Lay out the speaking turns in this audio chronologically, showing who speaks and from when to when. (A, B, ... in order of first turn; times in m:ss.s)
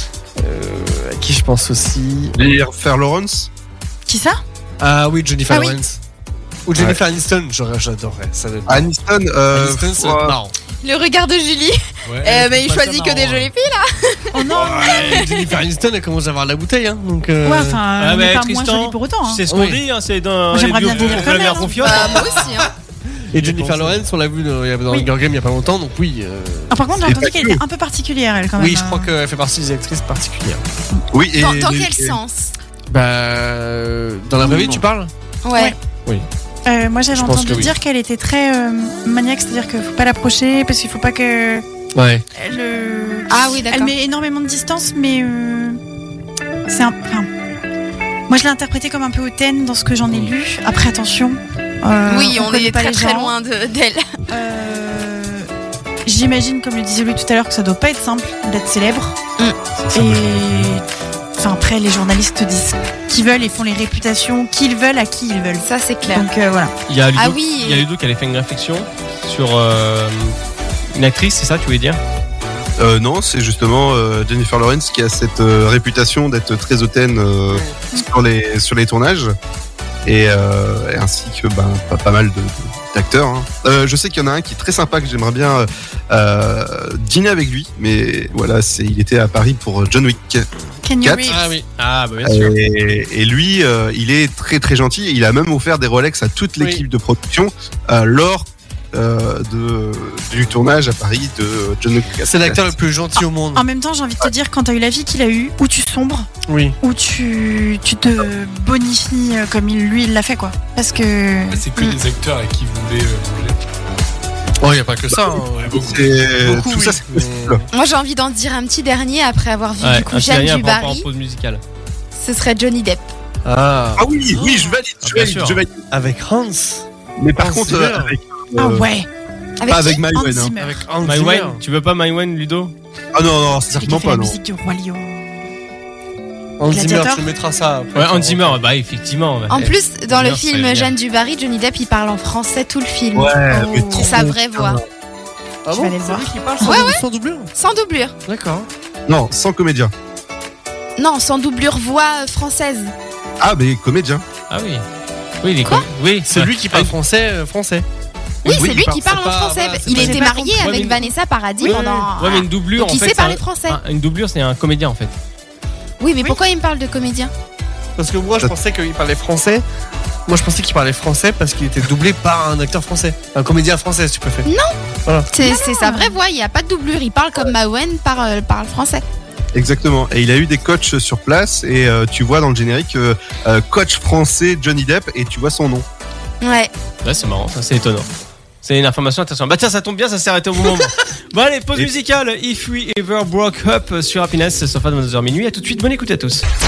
0:00.4-0:02.4 A
0:02.3-0:03.5 B
0:04.0-0:04.4 C
0:04.8-0:06.0 A
0:05.5-0:05.8 C
0:06.6-0:08.9 A
0:08.6-0:10.4 B
0:09.5-0:10.5 A
0:10.8-0:14.5 D
0:12.0-0:12.5 E
0:14.3-0:15.4 C
0:14.6-0:17.8 A
0:17.4-0:19.4 C
0:18.0-0:22.4 F
0:19.5-0:19.8 A
0:20.5-0:22.3 C
0:21.8-0:22.7 D
0:23.3-0:27.0 A
0:23.4-0:24.0 E
0:26.7-0:29.1 C
0:27.0-0:27.6 B
0:28.6-0:30.6 A
0:31.1-0:32.2 B
0:31.4-0:32.5 D
0:32.9-0:35.1 A
0:34.4-0:34.8 C
0:34.5-0:34.8 E
0:35.4-0:35.7 D
0:36.6-0:41.6 C
0:37.1-0:37.7 A
0:41.9-0:42.2 A
0:42.4-0:45.8 C
0:43.3-0:43.9 D
0:46.7-0:47.3 C
0:48.3-0:53.3 C
0:52.0-0:54.1 D
0:54.3-0:55.5 C
0:56.0-0:59.2 C
0:59.7-1:00.8 E
0:59.9-1:00.8 C
1:01.3-1:06.7 C
1:05.6-1:06.3 D
1:06.9-1:10.3 F
1:07.2-1:07.8 D
1:10.9-1:12.0 F
1:12.8-1:19.3 B
1:20.0-1:30.5 B
1:30.8-1:31.4 C
1:31.2-1:31.7 A
1:31.8-1:32.5 F
1:32.2-1:42.8 B
1:42.2-1:43.6 A
1:43.5-1:51.6 C
1:46.4-1:46.8 A
1:51.5-1:53.6 E
1:54.6-1:57.7 A
1:55.2-1:57.6 B
1:55.6-1:56.2 E
1:57.7-2:01.1 D
1:59.8-2:01.6 F
2:02.1-2:03.1 D
2:03.4-2:04.6 A
2:04.0-2:05.8 B
2:05.0-2:05.6 F
2:05.9-2:06.8 A
2:07.2-2:08.9 B
2:07.4-2:08.1 A
2:08.6-2:09.1 C
2:09.6-2:10.0 D
2:09.7-2:10.5 B
2:10.1-2:10.8 C
2:10.6-2:11.6 A
2:11.0-2:12.7 F
2:13.1-2:14.4 B
2:13.7-2:15.4 C
2:16.6-2:18.6 A
2:16.7-2:17.3 C
2:17.9-2:20.9 F
2:19.5-2:24.8 D
2:23.1-2:24.8 B
2:23.5-2:24.3 C
2:25.6-2:27.5 A
2:25.7-2:26.9 C
2:26.6-2:27.0 D
2:27.6-2:28.1 D
2:28.2-2:28.7 A
2:29.1-2:29.9 B
2:31.0-2:32.9 D
2:33.4-2:34.2 B
2:34.5-2:34.8 F
2:35.4-2:36.9 F
2:36.2-2:37.8 A
2:38.4-2:40.3 A
2:38.4-2:43.8 D
2:39.9-2:42.1 C
2:40.6-2:41.0 F
2:41.6-2:45.1 F
2:46.0-2:47.3 D
2:48.0-2:49.6 A
2:50.3-2:54.5 A
2:54.4-2:54.8 D
2:55.3-2:59.0 D
2:55.4-2:56.1 C
2:59.5-3:05.8 B
3:06.4-3:06.7 D
3:07.0-3:08.1 F
3:08.6-3:16.4 F